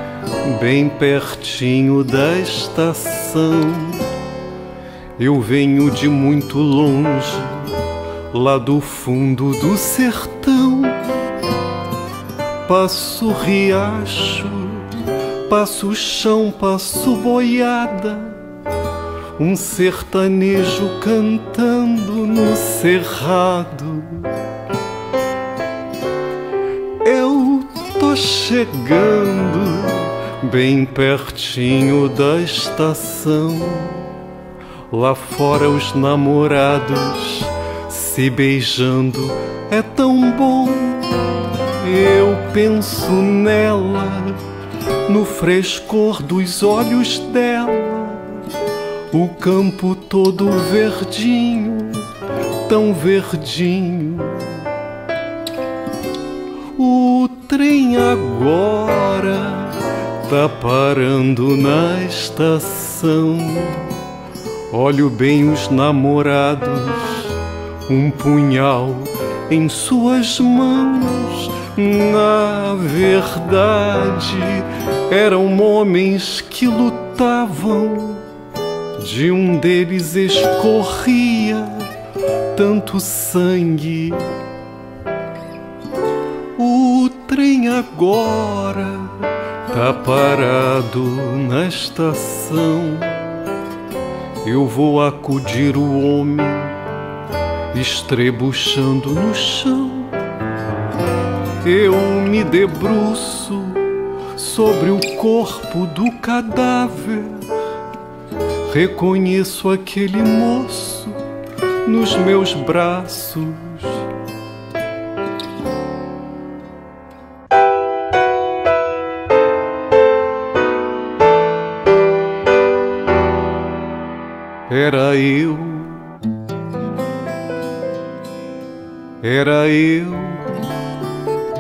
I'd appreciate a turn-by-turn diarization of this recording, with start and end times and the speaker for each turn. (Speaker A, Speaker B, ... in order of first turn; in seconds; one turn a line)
Speaker A: 0.4-4.2
Speaker A: 5.2-11.1
Speaker A: 12.7-18.4
Speaker A: 19.4-24.4
Speaker A: 27.0-34.1
Speaker A: 34.9-44.4
Speaker A: 45.1-48.5
Speaker A: 49.1-52.1
Speaker A: 52.6-54.7
Speaker A: 56.8-64.0
Speaker A: 64.7-78.3
Speaker A: 79.0-81.9
Speaker A: 82.5-84.4
Speaker A: 86.6-93.5
Speaker A: 94.4-96.8
Speaker A: 97.7-100.2
Speaker A: 101.6-107.5
Speaker A: 108.7-111.2
Speaker A: 111.8-114.1
Speaker A: 124.7-126.2
Speaker A: 129.2-130.7